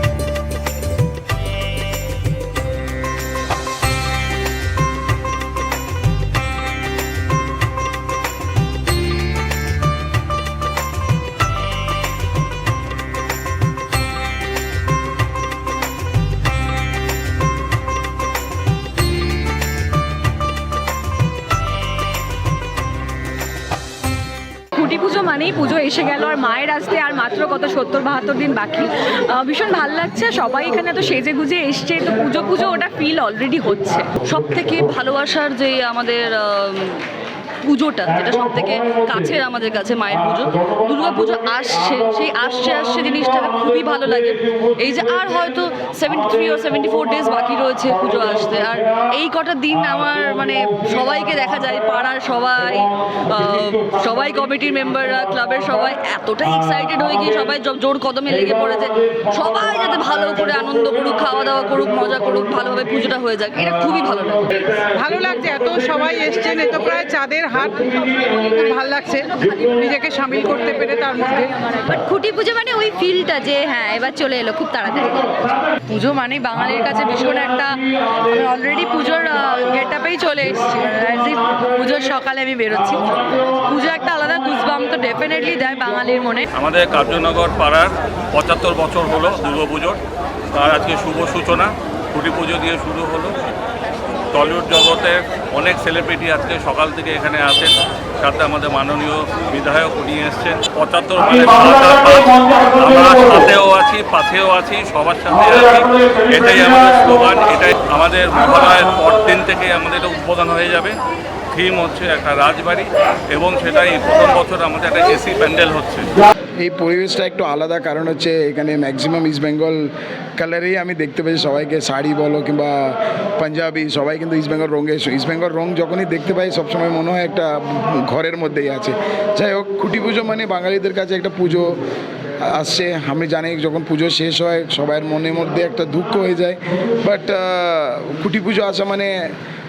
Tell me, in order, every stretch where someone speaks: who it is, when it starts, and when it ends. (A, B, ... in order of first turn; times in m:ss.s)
0:24.7-0:34.2 A
0:34.2-0:37.0 B
0:37.7-1:04.9 B
1:05.0-1:11.5 C
1:12.0-1:14.7 B
1:15.8-1:26.5 D
1:26.5-1:30.0 E
1:30.5-1:33.4 E
1:34.3-1:51.0 E
1:51.5-1:56.1 E
1:56.6-2:11.8 F
2:12.5-2:19.1 F